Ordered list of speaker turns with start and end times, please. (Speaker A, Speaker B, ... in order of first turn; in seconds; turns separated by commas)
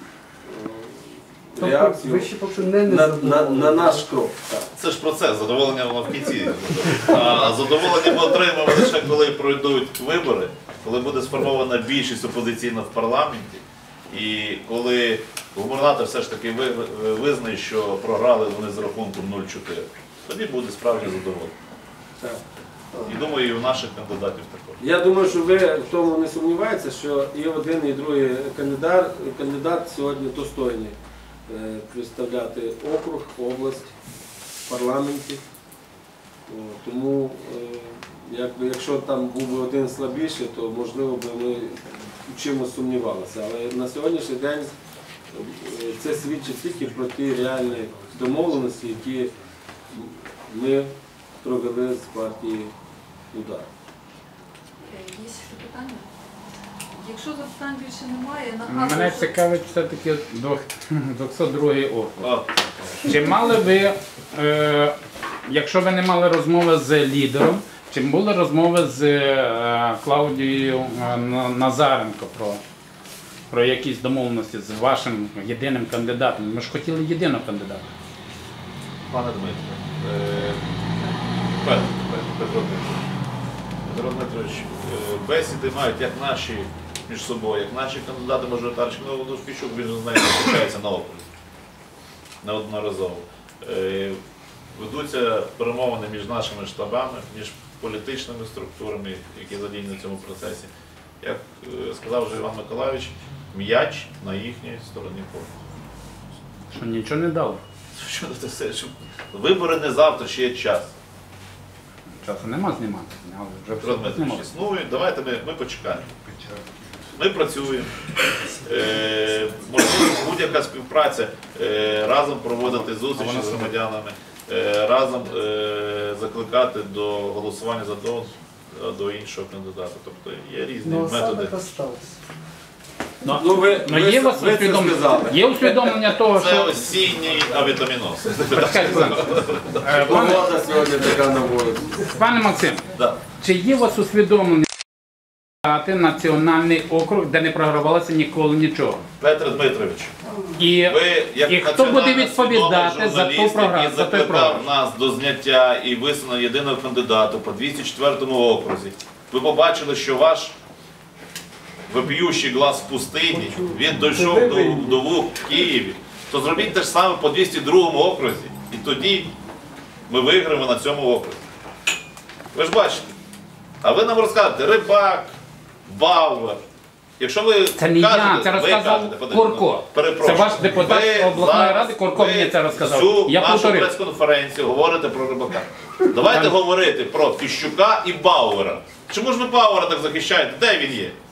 Speaker A: 0.4-2.3, Speaker B: 1.6-4.0, Speaker A: 2.9-4.7, Speaker C: 4.8-21.5, Speaker C: 23.1-24.8, Speaker A: 24.8-30.9, Speaker A: 31.5-33.9, Speaker A: 34.7-35.4, Speaker A: 36.5-44.7, Speaker A: 45.3-49.3, Speaker A: 49.9-52.7, Speaker A: 53.3-53.7, Speaker D: 54.8-56.0, Speaker D: 57.0-59.4, Speaker E: 58.6-62.3, Speaker C: 62.2-63.1, Speaker E: 63.0-64.9, Speaker E: 65.5-72.6, Speaker E: 73.5-77.9, Speaker C: 79.1-80.6, Speaker C: 81.6-83.0, Speaker C: 83.9-91.3, Speaker C: 92.4-94.2, Speaker C: 94.7-100.7, Speaker C: 101.2-105.5, Speaker E: 106.7-107.6, Speaker C: 107.9-110.9, Speaker E: 112.2-114.5, Speaker C: 113.8-116.1, Speaker C: 117.1-131.5, Speaker E: 123.0-123.7, Speaker B: 130.8-132.2, Speaker E: 133.2-136.8, Speaker A: 133.3-135.9, Speaker C: 136.3-139.9, Speaker E: 138.5-140.4, Speaker A: 139.9-142.1, Speaker E: 142.1-142.8, Speaker C: 142.9-143.2, Speaker E: 143.4-144.7, Speaker E: 145.6-149.0, Speaker C: 149.2-150.1, Speaker E: 150.6-154.7, Speaker C: 150.8-160.6, Speaker C: 161.9-169.3, Speaker B: 163.3-163.7, Speaker A: 164.1-164.9, Speaker B: 164.3-164.8, Speaker C: 170.1-171.4, Speaker C: 172.5-173.1, Speaker C: 173.8-175.3, Speaker C: 175.9-176.6, Speaker C: 177.2-191.2, Speaker E: 177.8-183.9, Speaker E: 186.2-186.6